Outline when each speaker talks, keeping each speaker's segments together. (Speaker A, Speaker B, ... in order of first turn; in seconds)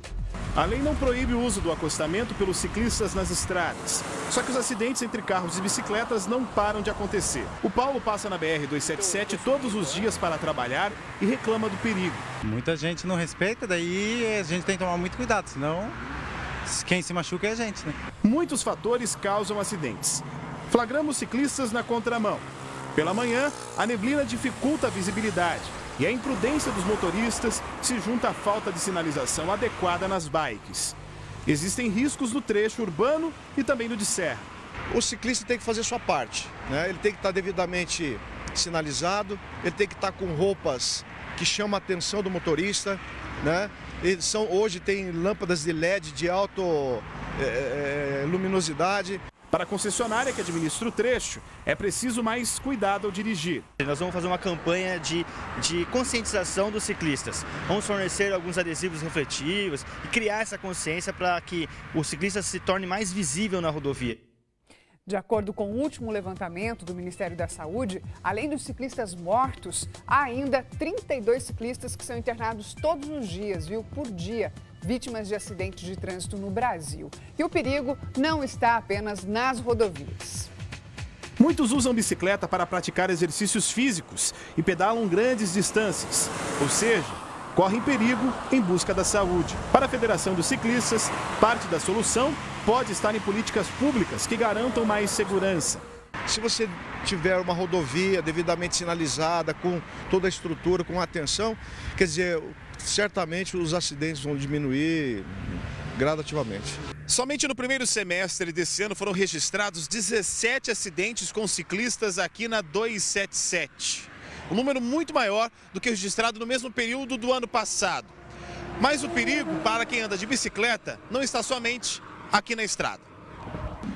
Speaker A: 0.6-12.3, 18.2-34.5, 49.5-53.7, 81.4-95.8, 107.1-118.1, 118.8-123.1
Speaker B: 12.4-16.0, 16.6-18.0
Speaker C: 34.9-49.2, 96.3-106.8
Speaker D: 53.8-64.2
Speaker E: 65.1-80.5